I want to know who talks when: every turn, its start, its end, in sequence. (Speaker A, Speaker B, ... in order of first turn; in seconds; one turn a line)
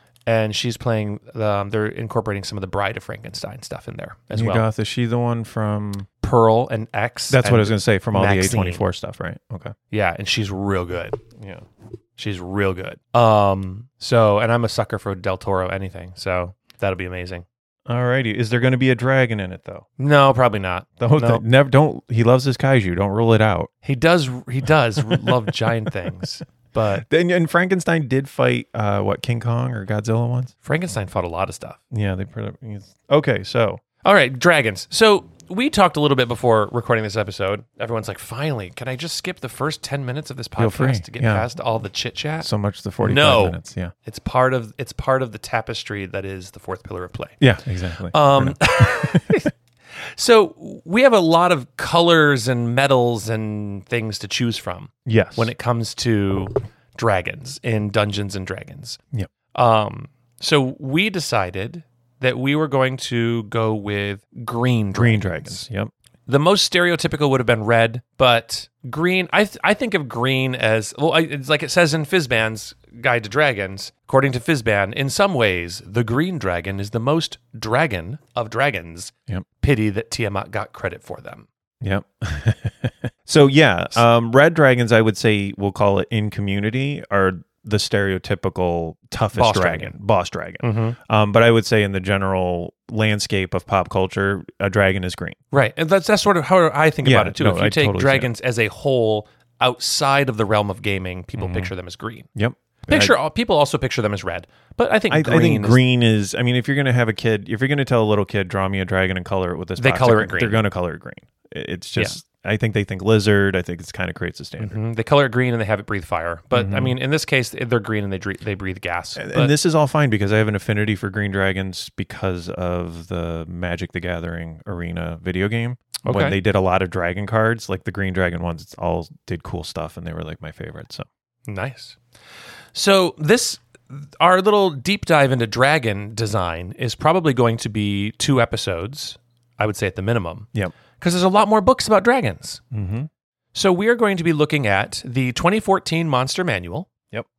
Speaker A: 0.3-4.6
Speaker B: 4.3-6.1
Speaker A: 6.2-8.8
Speaker B: 7.3-9.7
Speaker A: 9.9-11.2
Speaker B: 11.4-11.6
Speaker A: 12.2-17.4
Speaker B: 17.9-19.9
Speaker A: 20.0-21.4
Speaker B: 21.0-23.7
Speaker A: 23.8-27.0
Speaker B: 25.1-25.5
Speaker B: 27.0-30.5
Speaker A: 30.6-31.8
Speaker B: 31.9-33.8
Speaker A: 34.0-47.4
Speaker B: 40.6-41.5
Speaker B: 42.4-43.9
Speaker B: 47.4-49.4
Speaker A: 48.0-49.5
Speaker A: 50.0-59.0
Speaker B: 55.0-55.5
Speaker A: 59.5-65.6
Speaker B: 65.0-65.9
Speaker A: 66.3-81.5
Speaker B: 81.8-95.4
Speaker A: 89.3-90.0
Speaker A: 90.6-91.0
Speaker A: 95.5-102.3
Speaker B: 97.0-98.3
Speaker B: 101.3-101.7
Speaker B: 102.3-103.1
Speaker A: 102.9-105.8
Speaker B: 105.1-114.8
Speaker A: 109.8-110.6
Speaker A: 114.6-119.5
Speaker B: 116.5-117.0
Speaker B: 119.2-131.1
Speaker A: 126.0-126.4
Speaker A: 131.5-132.0
Speaker A: 132.7-142.6
Speaker B: 142.7-143.1
Speaker A: 143.5-146.9